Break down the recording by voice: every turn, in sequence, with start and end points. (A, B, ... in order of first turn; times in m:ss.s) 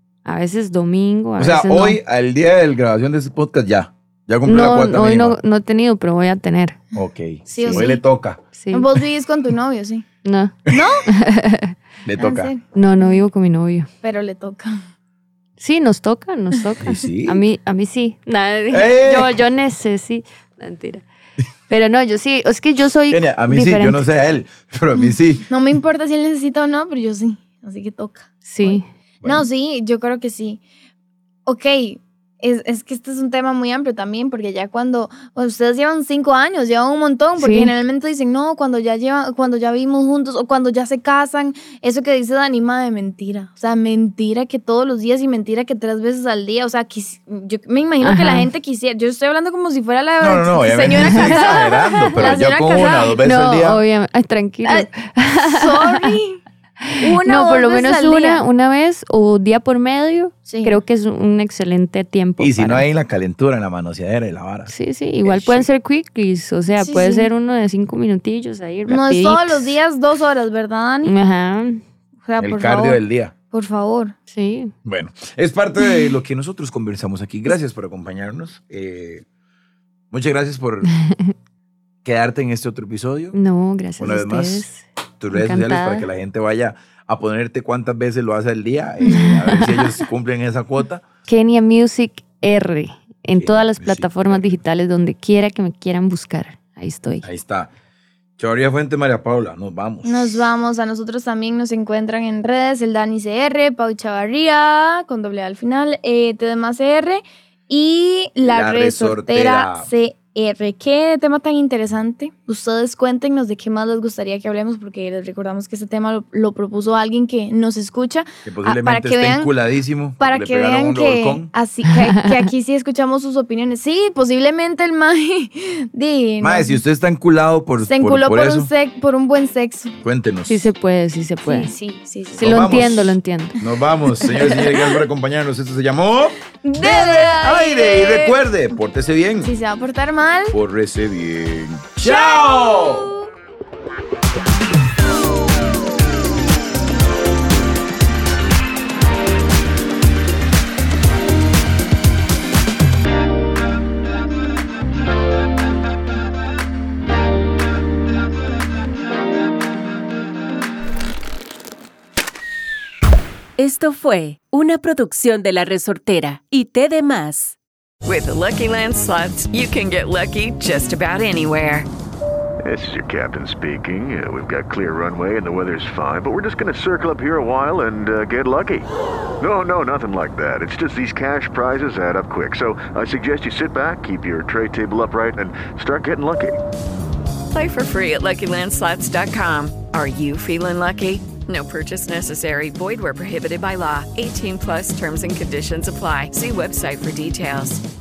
0:00.2-0:02.0 A
0:01.4-0:05.4 B
0:04.4-0:06.8 A
0:06.9-0:08.4 B
0:07.5-0:08.0 C
0:08.5-0:08.9 A
0:08.7-0:10.0 C
0:10.2-0:11.7 A
0:10.7-0:11.1 C
0:12.0-0:12.5 B
0:12.2-0:13.2 C
0:12.7-0:13.9 A
0:14.0-0:14.8 C
0:15.6-0:21.0 A
0:16.8-0:17.4 B
0:18.7-0:19.4 B
0:21.7-0:24.0 A
0:23.1-0:25.5 B
0:25.0-0:30.6 C
0:28.4-0:28.8 A
0:31.4-0:53.2 C
0:37.4-0:37.7 A
0:48.0-0:48.5 A
0:50.2-0:53.8 B
0:51.0-0:52.2 A
0:53.2-0:56.1 A
0:55.4-0:56.4 C
0:56.9-1:02.8 A
0:57.0-0:58.4 C
1:00.4-1:00.8 C
1:02.4-1:04.7 B
1:04.7-1:09.7 A
1:05.2-1:05.7 B
1:06.8-1:07.3 C
1:08.9-1:11.1 C
1:11.0-1:11.8 A
1:12.2-1:13.0 C
1:12.4-1:13.3 B
1:13.5-1:14.1 C
1:14.3-1:14.7 A
1:14.8-1:19.2 B
1:20.1-1:20.9 B
1:20.9-1:21.3 A
1:22.0-1:23.4 B
1:23.3-1:26.0 A
1:24.0-1:24.7 B
1:25.2-1:31.0 B
1:29.0-1:29.9 A
1:31.2-1:37.3 A
1:33.4-1:34.6 B
1:37.2-1:37.7 B
1:38.4-1:40.4 B
1:40.0-1:59.5 C
1:48.4-1:49.9 B
1:58.4-2:01.5 B
2:00.2-2:06.8 C
2:06.4-2:08.7 B
2:07.9-2:10.0 C
2:10.0-2:10.7 B
2:10.5-2:11.7 A
2:11.4-2:13.0 C
2:12.3-2:13.5 A
2:12.4-2:19.5 B
2:16.6-2:18.3 C
2:19.4-2:20.6 C
2:20.5-2:23.1 B
2:22.0-2:23.1 C
2:43.6-2:47.6 D
2:48.0-2:51.9 E
2:52.6-2:58.9 F
2:59.4-3:06.6 F
3:07.5-3:17.8 E